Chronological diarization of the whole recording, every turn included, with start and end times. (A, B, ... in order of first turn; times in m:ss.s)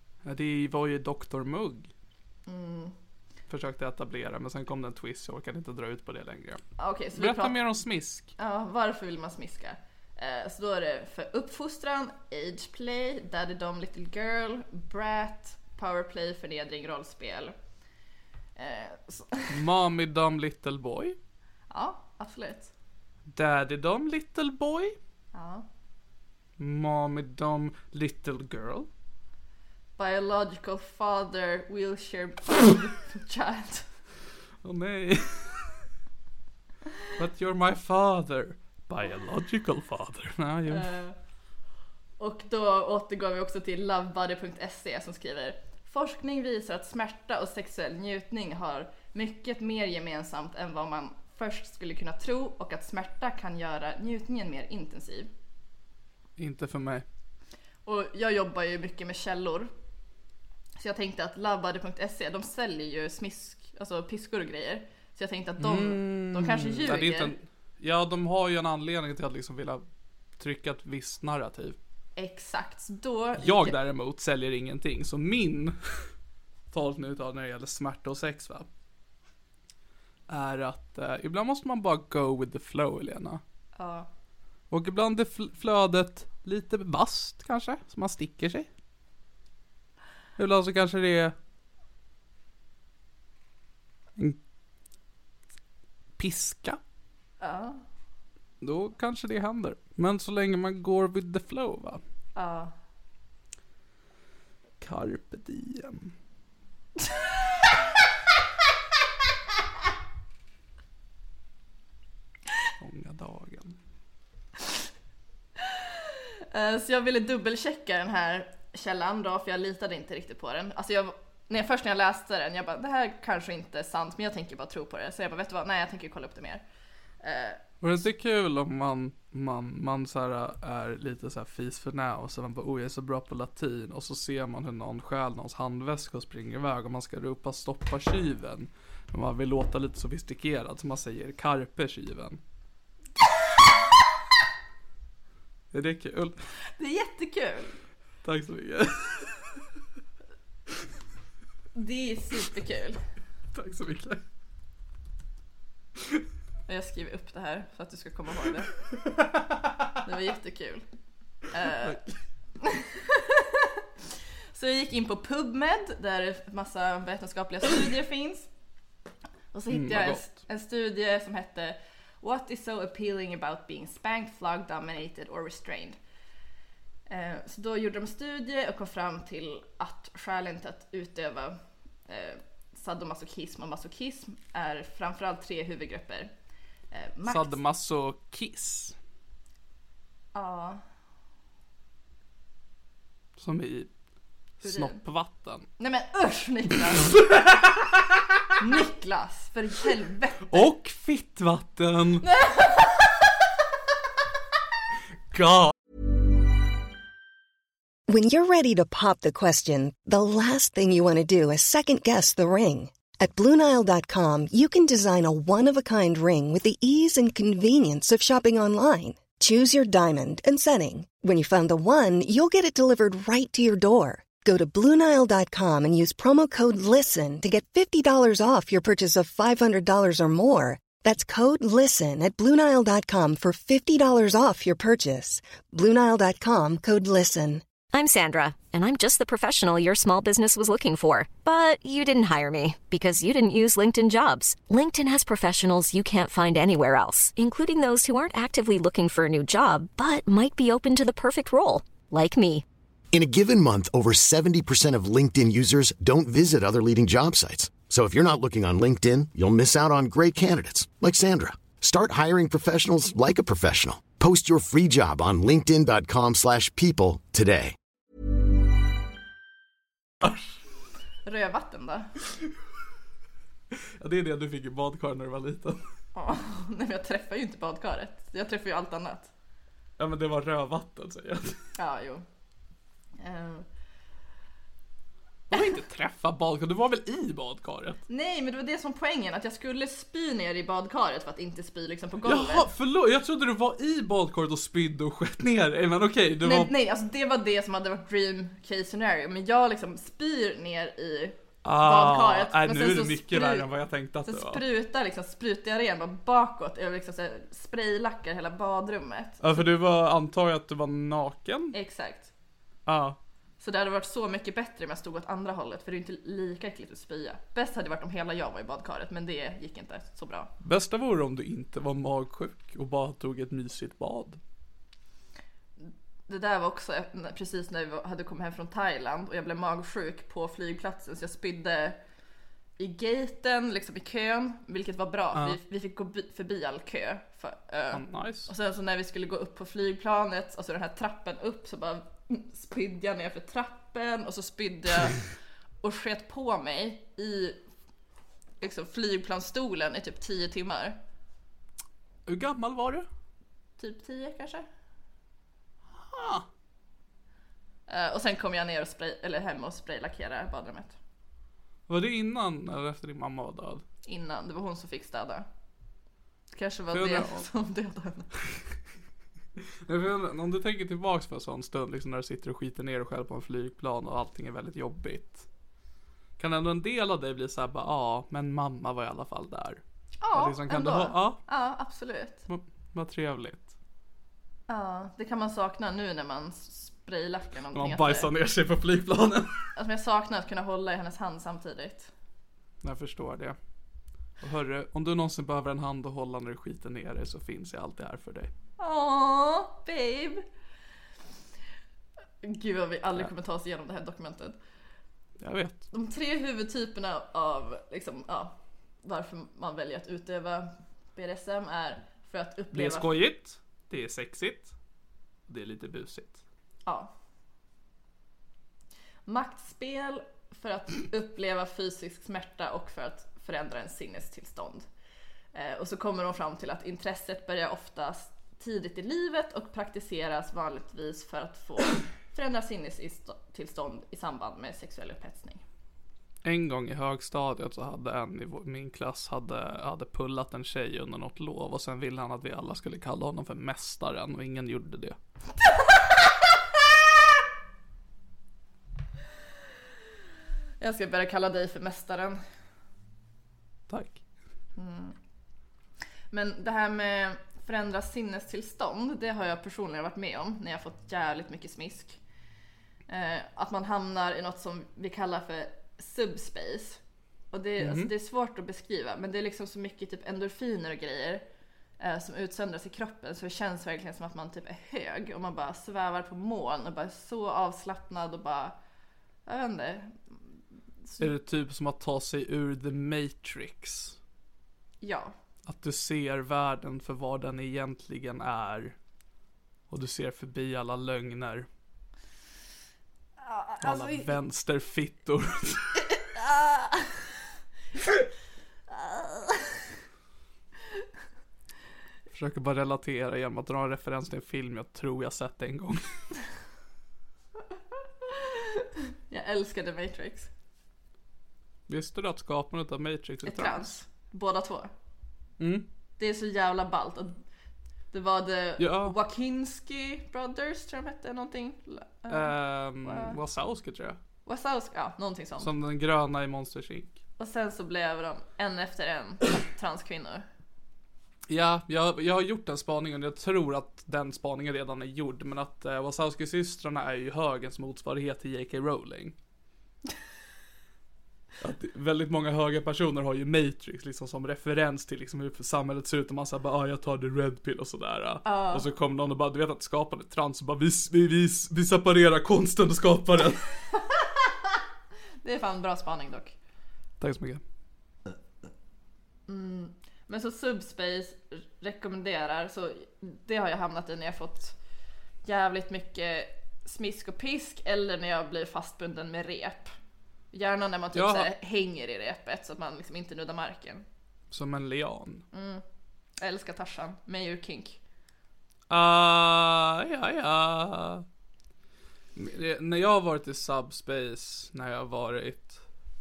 0:00.2-0:01.9 A
0:02.5-0:02.9 B
0:03.5-0:06.6 A
0:06.8-0:07.6 B
0:07.2-0:08.3 A
0:08.4-0:17.5 B
0:18.6-0:19.5 B
0:19.5-0:21.2 A
0:21.7-0:22.7 B
0:23.3-0:25.0 A
0:25.3-0:25.6 B
0:26.6-0:28.9 A
0:30.0-0:33.9 B
0:34.6-0:35.8 A
0:37.1-0:40.9 A
0:40.7-0:41.2 B
0:42.2-0:55.3 B
0:56.4-0:57.0 A
0:57.8-0:59.7 B
1:00.8-1:07.3 B
1:05.6-1:09.8 A
1:10.4-1:11.8 A
1:12.2-1:13.8 B
1:13.4-1:16.0 A
1:16.7-1:18.7 A
1:20.3-1:23.4 A
1:23.8-1:24.1 B
1:24.7-1:28.7 A
1:30.4-1:31.3 A
1:36.2-1:36.8 A
1:37.4-1:37.8 B
1:38.6-1:42.0 A
1:42.4-1:42.7 B
1:44.8-1:46.1 A
1:52.8-1:53.8 A
1:55.6-1:55.9 B
1:56.5-2:06.6 B
2:07.2-2:07.6 B
2:07.8-2:22.4 A
2:25.7-2:26.3 A
2:26.8-2:27.8 B
2:28.2-2:29.5 A
2:31.7-2:33.0 B
2:33.5-2:34.2 A
2:36.7-2:38.7 B
2:40.0-2:40.8 B
2:41.5-2:42.0 B
2:42.6-2:43.8 B
2:44.5-2:48.5 B
2:49.5-2:56.0 B
2:49.7-2:50.3 A
2:57.1-3:06.3 B
3:06.9-3:07.6 B
3:07.3-3:09.0 A
3:10.3-3:10.8 B
3:13.4-3:13.9 A
3:14.6-3:15.7 A
3:14.6-3:15.0 B
3:15.8-3:17.1 B
3:18.6-3:20.6 B
3:20.5-3:22.3 A
3:22.2-3:23.2 B
3:25.3-3:25.7 A
3:28.1-3:57.6 C
3:57.9-4:12.6 D
4:13.1-4:27.7 E
4:31.2-4:32.1 B
4:34.0-4:35.8 A
4:36.1-4:39.3 B
4:40.0-4:41.6 A
4:41.8-4:42.2 B
4:43.2-4:43.6 B
4:45.5-4:48.0 A
4:48.1-4:52.7 B
4:52.2-4:56.7 A
4:56.4-5:03.6 B
5:01.6-5:04.6 A
5:04.2-5:09.6 B
5:09.4-5:11.7 A
5:11.7-5:12.3 B
5:12.8-5:13.2 A
5:13.6-5:20.5 B
5:20.6-5:24.4 A
5:25.8-5:32.0 B
5:32.8-5:45.2 B
5:37.9-5:38.5 A
5:45.8-5:47.6 B
5:48.6-5:51.0 B
5:52.2-5:53.1 A
5:53.8-5:54.6 B
5:56.0-5:56.4 A
5:57.9-6:01.0 B
6:01.9-6:03.8 A
6:04.0-6:05.4 B
6:06.5-6:08.3 B
6:06.9-6:07.5 A
6:09.8-6:15.5 A
6:16.4-6:19.8 A
6:20.2-6:22.4 B
6:20.3-6:21.4 A
6:22.5-6:23.7 A
6:24.7-6:28.3 B
6:27.7-6:29.7 A
6:29.8-6:32.1 B
6:32.8-6:33.6 A
6:34.4-6:38.5 A
6:38.8-6:40.4 B
6:42.4-6:44.6 B
6:45.4-6:45.8 A
6:45.9-6:53.1 B
6:52.7-6:54.7 A
6:55.5-6:56.4 A
6:56.8-6:57.1 B
6:59.3-7:04.8 B
7:05.5-7:15.6 B
7:16.4-7:25.2 A
7:30.8-7:32.4 B
7:33.9-7:34.2 A
7:34.8-7:35.2 B
7:36.3-7:42.2 B
7:43.1-7:47.0 B
7:47.5-7:51.4 B
7:47.8-7:48.1 A
7:52.0-7:58.8 B
7:59.4-8:00.4 B
8:01.2-8:04.2 A
8:05.0-8:05.3 B
8:05.6-8:09.0 A
8:09.9-8:11.7 A
8:13.4-8:14.3 B
8:13.8-8:16.0 A
8:16.3-8:17.2 B
8:18.9-8:19.8 B
8:22.3-8:26.0 A
8:28.2-8:30.5 B
8:31.9-8:34.0 A
8:33.4-8:34.9 B
8:35.6-8:35.9 A
8:36.2-8:37.4 B
8:38.1-8:42.5 B
8:38.8-8:39.2 A
8:42.3-8:44.2 A
8:43.0-8:43.4 B
8:44.4-8:45.7 B
8:45.6-8:47.2 A
8:47.4-8:50.4 B
8:51.5-8:59.3 A
9:01.6-9:13.6 A
9:08.4-9:08.9 B
9:14.0-9:14.7 B
9:15.4-9:16.5 B
9:17.2-9:17.6 A
9:19.5-9:24.7 B
9:25.4-9:29.9 B
9:30.5-9:34.0 B
9:31.1-9:31.5 A
9:34.5-9:35.4 A
9:35.5-9:35.8 B
9:36.4-9:38.0 B
9:38.9-9:41.2 A
9:42.3-9:45.8 A